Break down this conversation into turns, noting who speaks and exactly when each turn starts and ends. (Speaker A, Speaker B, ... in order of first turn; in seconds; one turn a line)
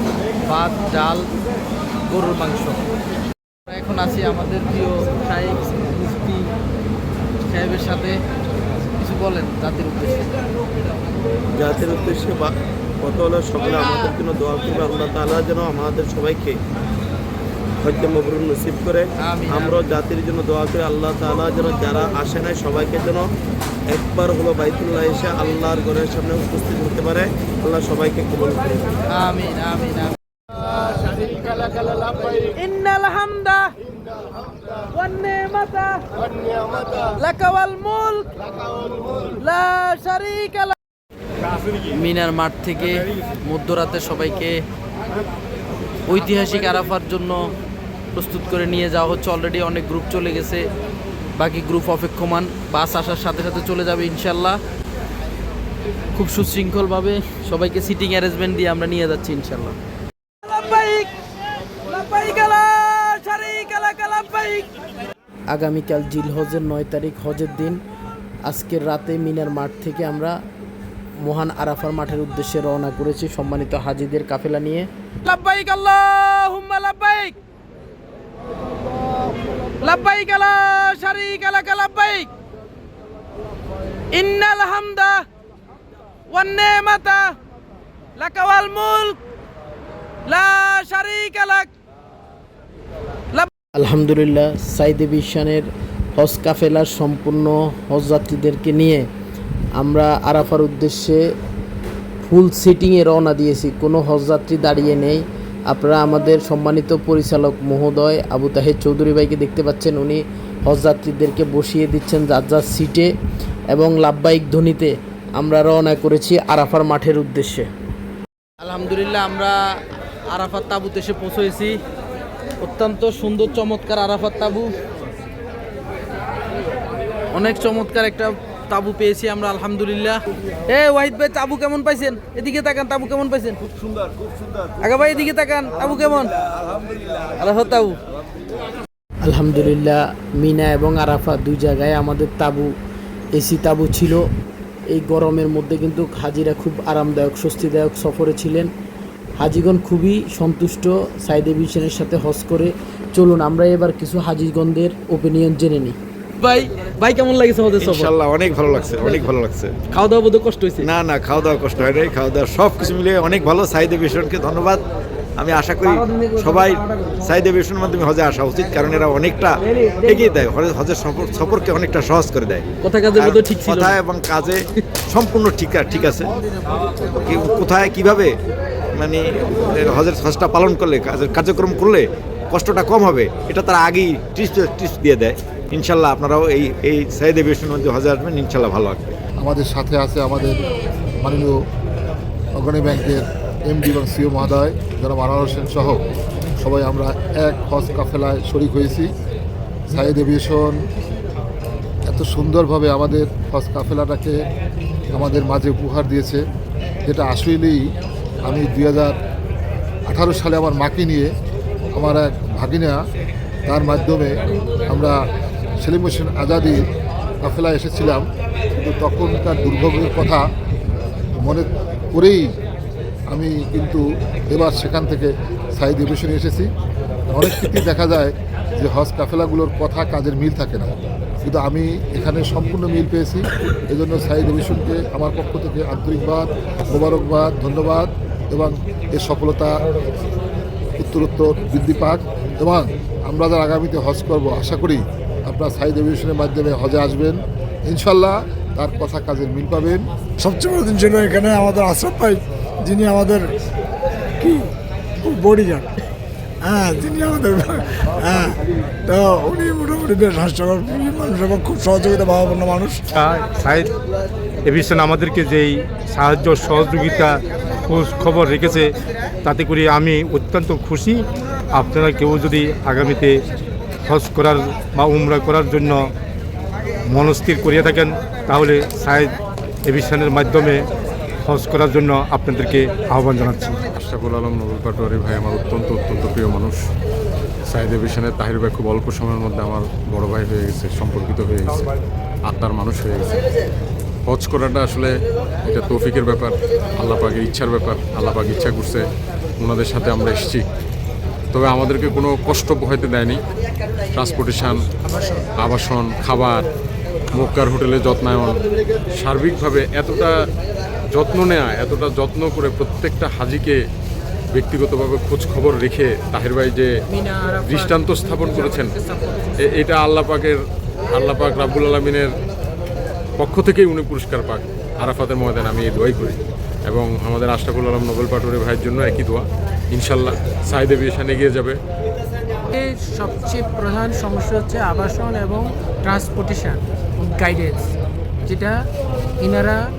Speaker A: 0.5-1.2
Speaker A: 2.1-2.8
Speaker A: 3.7-6.5
Speaker A: 7.5-8.2
Speaker A: 9.0-10.3
Speaker B: 11.6-16.6
Speaker B: 17.8-23.3
Speaker A: 19.2-19.8
Speaker B: 23.9-28.8
Speaker A: 29.1-30.2
Speaker A: 32.4-33.7
Speaker A: 34.9-36.0
Speaker A: 37.2-38.3
Speaker A: 39.4-40.8
Speaker A: 41.9-44.6
Speaker A: 46.1-47.5
Speaker A: 48.1-50.7
Speaker A: 51.4-54.6
Speaker A: 56.1-59.8
Speaker A: 60.5-61.1
Speaker A: 61.9-64.7
Speaker A: 65.5-67.8
Speaker A: 68.5-70.4
Speaker A: 71.2-77.3
Speaker A: 79.8-82.3
Speaker A: 84.1-85.2
Speaker A: 86.3-87.3
Speaker A: 88.2-89.2
Speaker A: 90.2-91.7
Speaker A: 93.3-99.1
Speaker A: 99.8-101.2
Speaker A: 102.2-113.1
Speaker A: 113.7-117.7
Speaker A: 118.6-119.6
Speaker A: 120.3-121.8
Speaker A: 122.6-124.7
Speaker A: 127.3-133.6
Speaker A: 134.8-136.3
Speaker A: 137.4-138.0
Speaker A: 139.2-142.7
Speaker A: 143.3-144.3
Speaker A: 144.9-148.7
Speaker A: 149.4-158.1
Speaker C: 157.8-159.8
Speaker A: 158.9-159.3
Speaker A: 159.9-160.9
Speaker C: 160.8-164.8
Speaker C: 165.4-176.3
Speaker A: 172.8-174.0
Speaker C: 177.1-178.3
Speaker C: 178.9-189.1
Speaker D: 189.4-191.6
Speaker D: 192.6-196.0
Speaker D: 196.6-199.1
Speaker D: 199.9-200.8
Speaker D: 202.1-204.4
Speaker D: 205.1-206.4
Speaker D: 207.1-207.8
Speaker D: 208.4-209.2
Speaker D: 210.1-211.3
Speaker D: 211.9-213.0
Speaker D: 213.7-215.2
Speaker D: 215.8-216.9
Speaker D: 217.4-218.2
Speaker D: 218.8-220.5
Speaker D: 221.4-222.5
Speaker D: 223.3-226.7
Speaker D: 227.3-239.8
Speaker D: 241.0-250.1
Speaker E: 250.4-253.5
Speaker E: 254.4-254.7
Speaker E: 255.2-255.9
Speaker E: 256.6-258.6
Speaker E: 259.1-263.1
Speaker F: 263.1-263.9
Speaker F: 264.6-268.9
Speaker F: 269.4-273.4
Speaker F: 274.1-276.1
Speaker F: 277.1-279.4
Speaker F: 279.9-280.8
Speaker F: 281.5-283.8
Speaker G: 283.9-286.8
Speaker G: 287.7-291.9
Speaker G: 292.5-293.3
Speaker G: 294.3-295.1
Speaker G: 295.6-299.1
Speaker G: 299.6-300.7
Speaker G: 301.5-303.4
Speaker G: 304.1-304.8
Speaker H: 305.0-305.5
Speaker G: 305.6-306.6
Speaker G: 307.4-310.4
Speaker G: 311.1-313.8
Speaker G: 314.5-316.9
Speaker H: 317.1-319.8
Speaker G: 317.7-318.9
Speaker G: 319.6-320.6
Speaker G: 321.1-322.3
Speaker G: 323.4-331.8
Speaker H: 332.7-337.9
Speaker H: 338.5-338.8
Speaker H: 339.4-339.8